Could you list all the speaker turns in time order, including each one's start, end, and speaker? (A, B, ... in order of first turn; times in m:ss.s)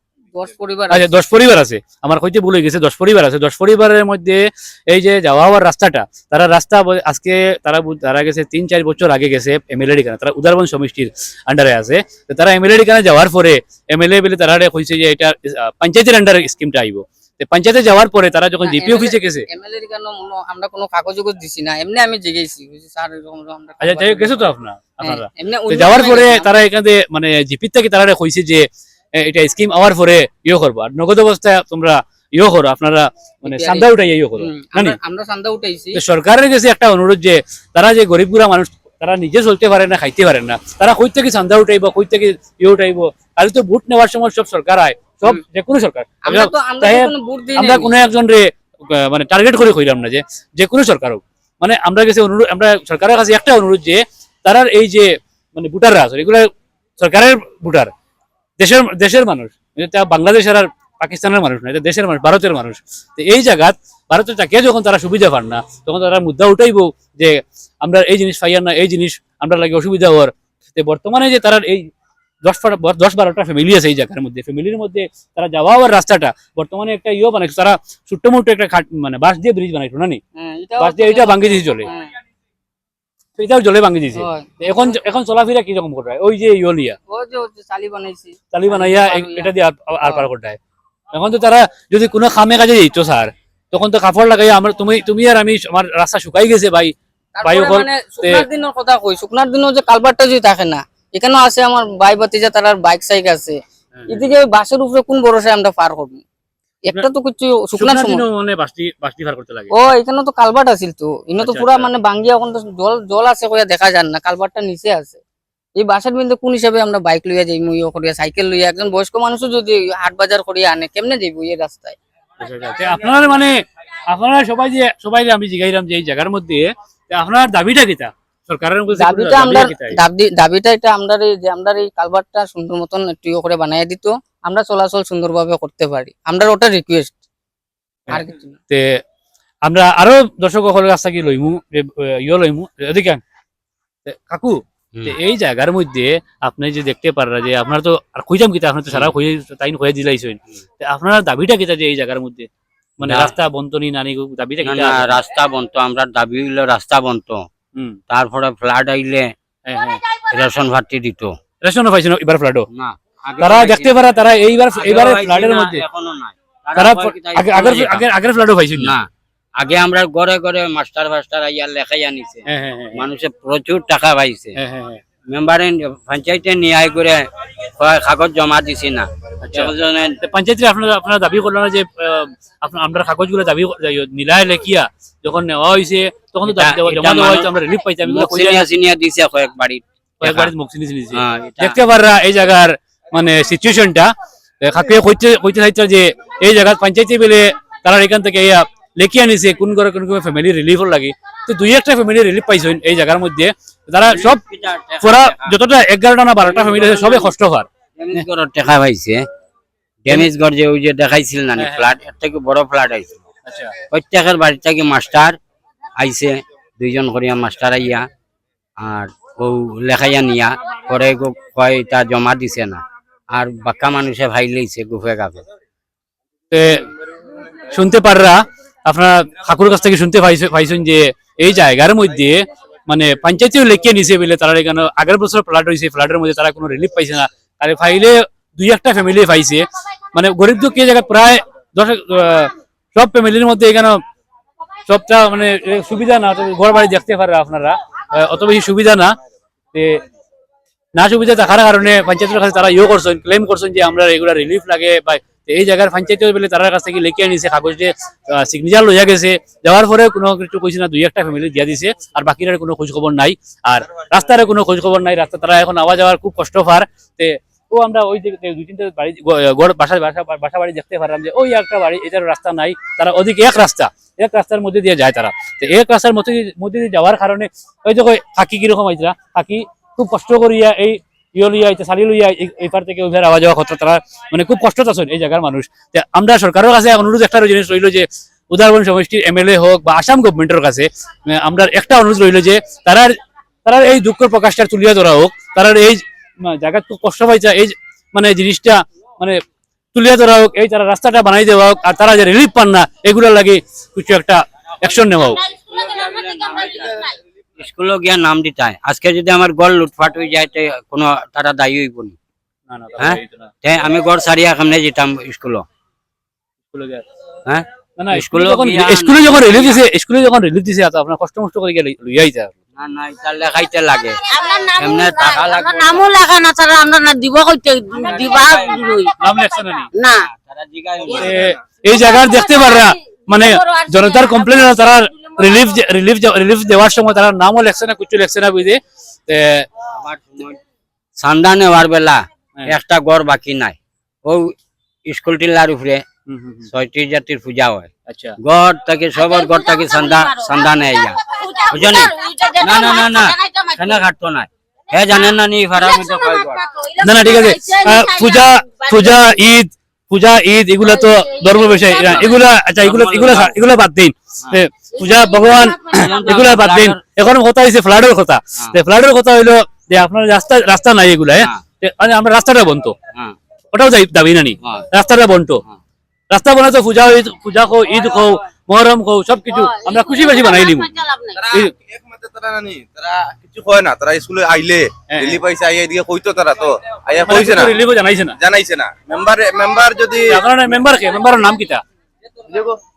0:00.3-0:01.1 A
0:00.9-0:19.5 B
0:18.6-0:24.4 A
0:23.8-0:28.7 B
0:25.0-0:26.5 A
0:29.2-0:35.0 B
0:33.5-0:36.0 A
0:35.9-0:56.5 B
0:46.2-0:47.9 A
0:57.0-0:57.9 B
0:58.6-1:11.9 B
1:12.4-1:20.2 B
1:20.4-1:22.1 A
1:20.8-1:21.9 B
1:23.4-1:27.0 B
1:24.2-1:24.7 A
1:27.1-1:29.5 A
1:28.5-1:30.6 B
1:31.1-1:36.9 B
1:37.4-1:43.6 A
1:37.4-1:38.5 B
1:44.0-1:44.3 B
1:44.1-1:46.2 A
1:46.9-1:48.2 A
1:47.7-1:49.7 B
1:49.7-1:55.2 A
1:51.4-1:51.9 B
1:55.8-2:02.0 A
2:02.4-2:03.6 B
2:04.1-2:10.0 B
2:08.9-2:17.2 A
2:18.1-2:19.0 B
2:18.1-2:18.6 A
2:19.6-2:23.2 B
2:24.0-2:35.2 B
2:33.1-2:33.3 C
2:34.6-2:37.5 C
2:38.1-2:39.3 C
2:39.7-2:40.0 B
2:40.3-2:41.4 C
2:41.6-2:42.7 B
2:42.7-2:44.0 C
2:43.4-2:45.8 B
2:44.7-2:48.1 C
2:46.8-2:49.0 B
2:48.8-2:54.6 C
2:52.5-2:53.1 B
2:54.6-2:55.0 B
2:55.3-3:00.2 C
2:59.4-3:08.7 B
3:06.4-3:07.5 C
3:08.0-3:10.5 C
3:10.2-3:24.4 B
3:11.1-3:11.8 C
3:24.0-3:25.6 C
3:25.0-3:28.3 B
3:26.6-3:27.3 C
3:28.0-3:29.2 C
3:30.0-3:33.2 C
3:31.6-3:31.8 B
3:33.5-3:33.8 B
3:33.9-3:35.4 C
3:36.0-3:38.1 C
3:38.8-3:45.4 C
3:46.5-3:46.9 B
3:47.6-4:04.0 B
4:04.9-4:09.2 B
4:09.7-4:10.0 B
4:11.0-4:59.4 B
4:59.9-5:05.4 B
5:05.3-5:07.2 D
5:07.6-5:12.2 C
5:12.7-5:13.5 B
5:13.0-5:15.7 C
5:16.7-5:17.0 B
5:17.5-5:19.8 C
5:18.0-5:22.6 B
5:22.8-5:24.2 C
5:24.2-5:30.3 D
5:24.8-5:26.1 C
5:27.9-5:29.0 C
5:29.2-5:29.9 B
5:30.1-5:31.6 C
5:31.1-5:39.7 B
5:31.8-5:35.6 D
5:39.9-5:40.6 C
5:41.2-5:44.6 C
5:45.1-5:46.1 C
5:46.3-5:46.7 B
5:46.7-5:56.6 C
5:48.1-5:48.4 B
5:49.2-5:54.0 D
5:55.0-5:59.4 D
5:57.0-6:13.0 B
6:00.8-6:02.5 D
6:02.8-6:03.6 C
6:05.0-6:06.1 D
6:05.9-6:07.0 C
6:13.7-6:15.6 B
6:14.6-6:14.9 C
6:16.3-6:21.0 B
6:19.5-6:21.5 D
6:21.4-6:27.8 E
6:25.1-6:25.4 B
6:27.2-6:28.4 B
6:28.4-6:30.4 E
6:30.3-6:31.8 B
6:32.5-6:32.8 E